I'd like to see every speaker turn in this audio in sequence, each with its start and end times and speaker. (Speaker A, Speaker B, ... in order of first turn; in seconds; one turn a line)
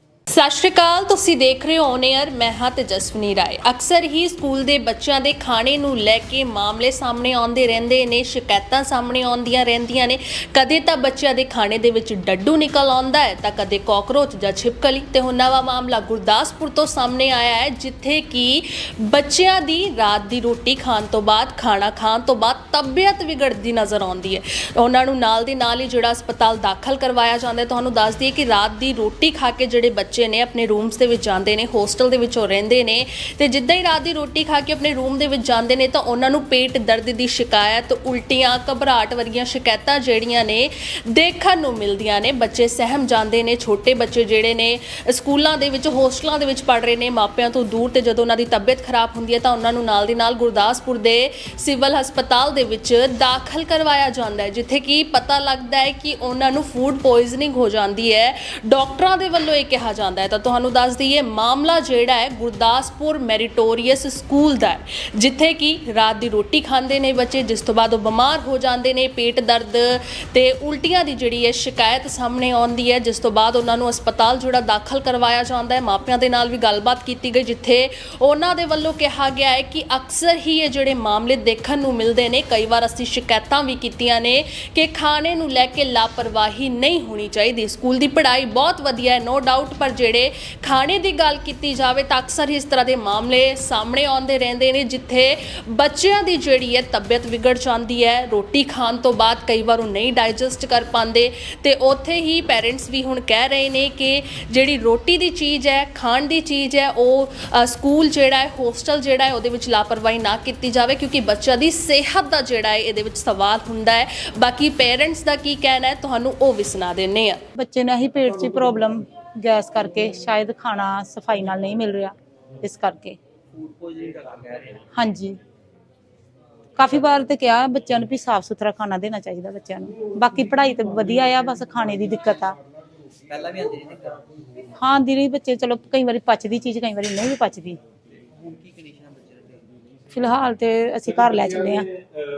Speaker A: 0.3-117.4
Speaker B: 117.5-123.2
Speaker C: 123.5-124.8
Speaker B: 124.9-125.4
Speaker B: 126.8-132.6
Speaker C: 133.2-134.2
Speaker B: 134.8-137.8
Speaker C: 138.3-139.7
Speaker B: 140.1-141.9